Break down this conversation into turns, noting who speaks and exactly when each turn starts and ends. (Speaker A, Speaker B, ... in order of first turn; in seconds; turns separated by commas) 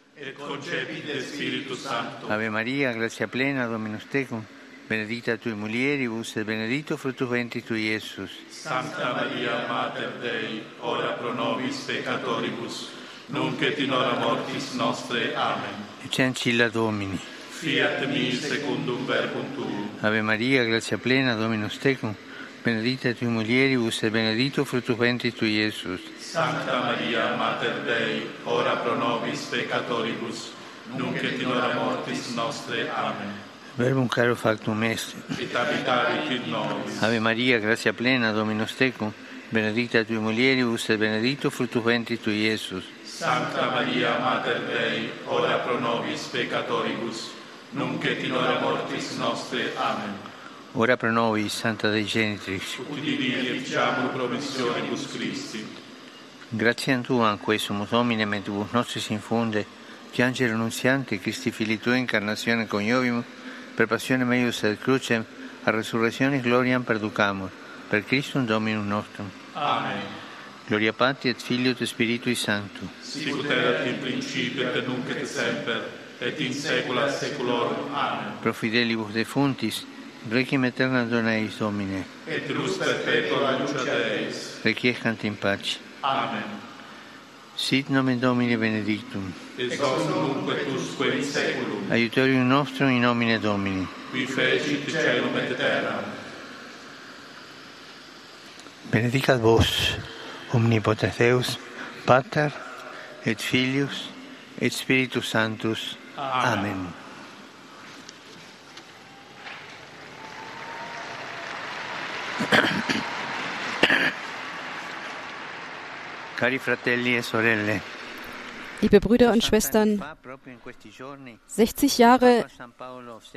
Speaker A: 0.2-2.4, Speaker B: 2.3-8.4, Speaker A: 8.5-15.9, Speaker B: 16.0-17.4, Speaker A: 17.4-20.0, Speaker B: 20.0-26.2, Speaker A: 26.1-33.4, Speaker B: 33.7-35.3, Speaker A: 35.3-37.2, Speaker B: 37.0-42.9, Speaker A: 43.0-50.2, Speaker B: 50.7-52.8, Speaker A: 52.8-55.8, Speaker B: 56.5-69.3, Speaker A: 69.5-70.2, Speaker B: 70.7-72.9, Speaker A: 73.0-78.4, Speaker B: 78.4-82.2, Speaker A: 82.2-84.6, Speaker B: 84.6-85.8, Speaker A: 86.0-86.6, Speaker B: 87.5-89.4, Speaker A: 89.5-92.0, Speaker B: 91.9-94.0, Speaker A: 94.0-96.1, Speaker B: 98.8-106.9, Speaker A: 106.2-106.8, Speaker B: 116.4-117.8, Speaker C: 118.8-120.1, Speaker C: 121.5-122.5